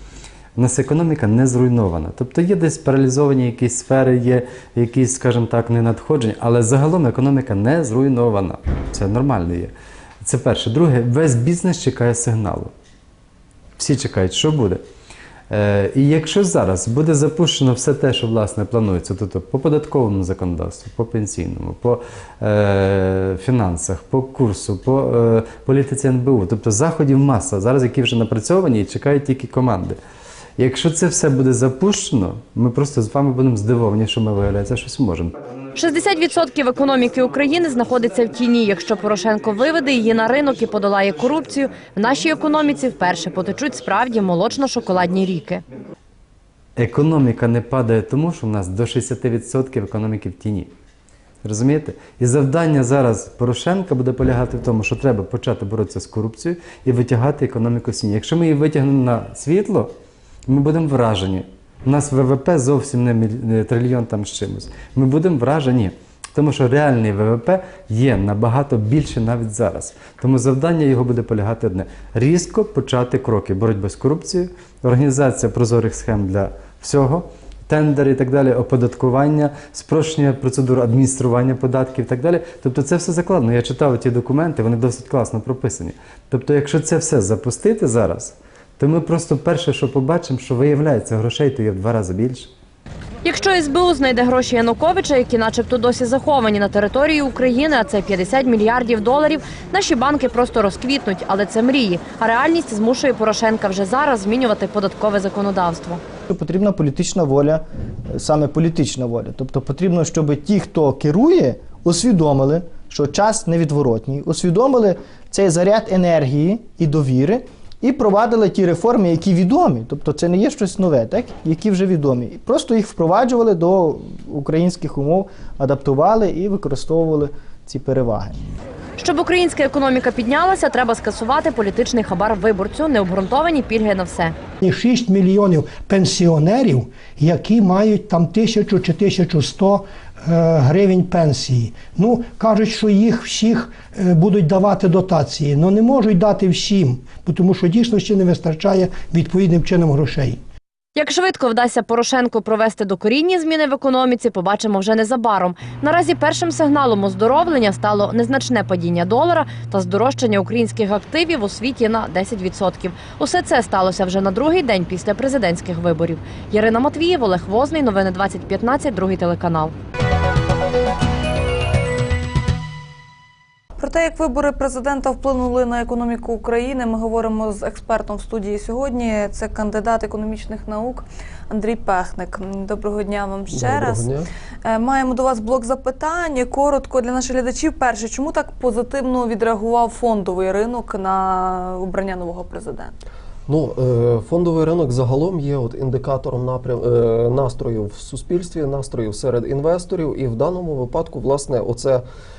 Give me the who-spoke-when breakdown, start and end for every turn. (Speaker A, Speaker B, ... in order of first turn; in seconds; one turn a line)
Speaker A: 0.6-12.7
Speaker A: 13.8-14.8
Speaker A: 15.5-30.0
Speaker A: 30.6-35.3
Speaker B: 35.7-45.6
Speaker A: 46.8-50.7
Speaker A: 51.4-59.9
Speaker A: 60.5-92.5
Speaker B: 93.2-106.0
Speaker C: 106.3-128.4
Speaker B: 129.0-134.3
Speaker D: 134.6-150.4
Speaker B: 150.9-169.7
Speaker E: 173.8-184.1
Speaker F: 183.5-184.3
Speaker E: 184.6-192.9
Speaker F: 193.5-202.0